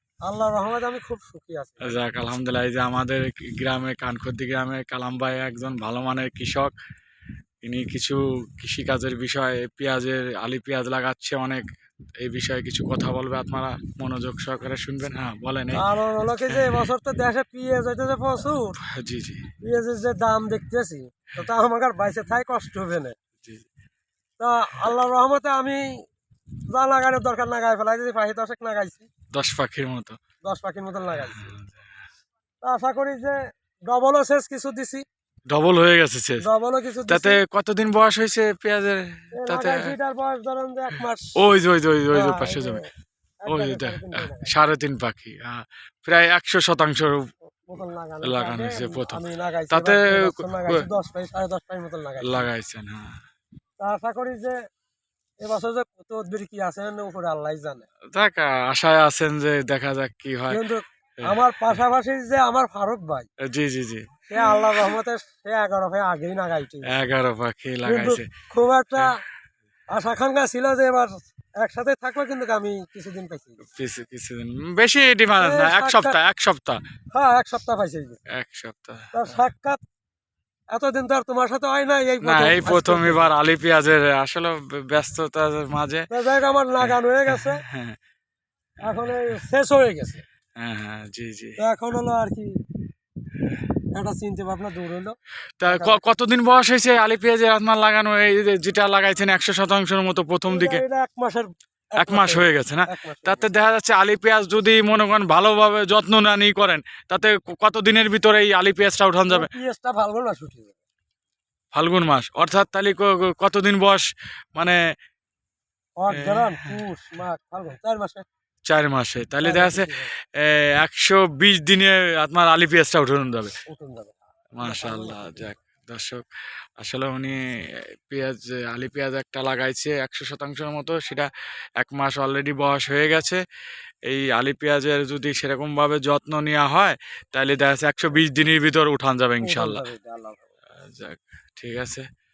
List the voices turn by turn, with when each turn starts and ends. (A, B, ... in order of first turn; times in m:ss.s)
0:00.2-0:02.0 A
0:01.8-0:06.7 B
0:07.6-0:11.6 B
0:12.2-0:15.8 B
0:15.7-0:18.7 A
0:16.5-0:16.8 B
0:18.8-0:19.5 B
0:19.6-0:23.1 A
0:24.4-0:25.8 A
0:26.7-0:29.1 A
0:29.3-0:30.2 B
0:30.4-0:31.5 A
0:31.2-0:31.8 B
0:32.6-0:33.4 A
0:33.9-0:35.0 A
0:35.5-0:36.4 B
0:36.4-0:37.4 A
0:37.1-0:39.9 B
0:39.4-0:41.4 A
0:41.4-0:42.8 B
0:42.1-0:42.8 A
0:43.4-0:44.5 A
0:43.5-0:47.3 B
0:47.6-0:52.5 A
0:48.2-0:50.8 B
0:52.2-0:53.1 B
0:53.8-0:54.5 A
0:55.4-0:57.8 A
0:58.1-1:00.6 B
1:00.5-1:03.3 A
1:03.5-1:04.9 B
1:04.3-1:06.9 A
1:06.8-1:08.3 B
1:07.8-1:09.1 A
1:09.9-1:13.6 A
1:13.7-1:16.8 B
1:15.4-1:16.2 A
1:17.1-1:18.2 A
1:18.3-1:19.1 B
1:19.1-1:19.8 A
1:20.7-1:23.3 A
1:22.2-1:26.1 B
1:26.1-1:27.6 A
1:26.8-1:28.0 B
1:28.8-1:30.2 A
1:30.6-1:31.6 B
1:31.6-1:32.5 A
1:34.0-1:35.1 A
1:35.6-1:40.8 B
1:35.7-1:36.1 A
1:40.5-1:43.4 A
1:42.0-1:49.5 B
1:49.3-1:50.8 A
1:51.7-1:54.0 B
1:56.0-1:58.2 A
1:56.1-1:56.8 B
1:58.7-2:03.6 B
1:59.4-2:00.1 A
2:03.7-2:05.5 A
2:04.5-2:06.2 B
2:06.8-2:11.3 B
2:11.8-2:13.4 B
2:14.1-2:19.8 B
2:19.4-2:20.5 A
2:20.8-2:22.0 B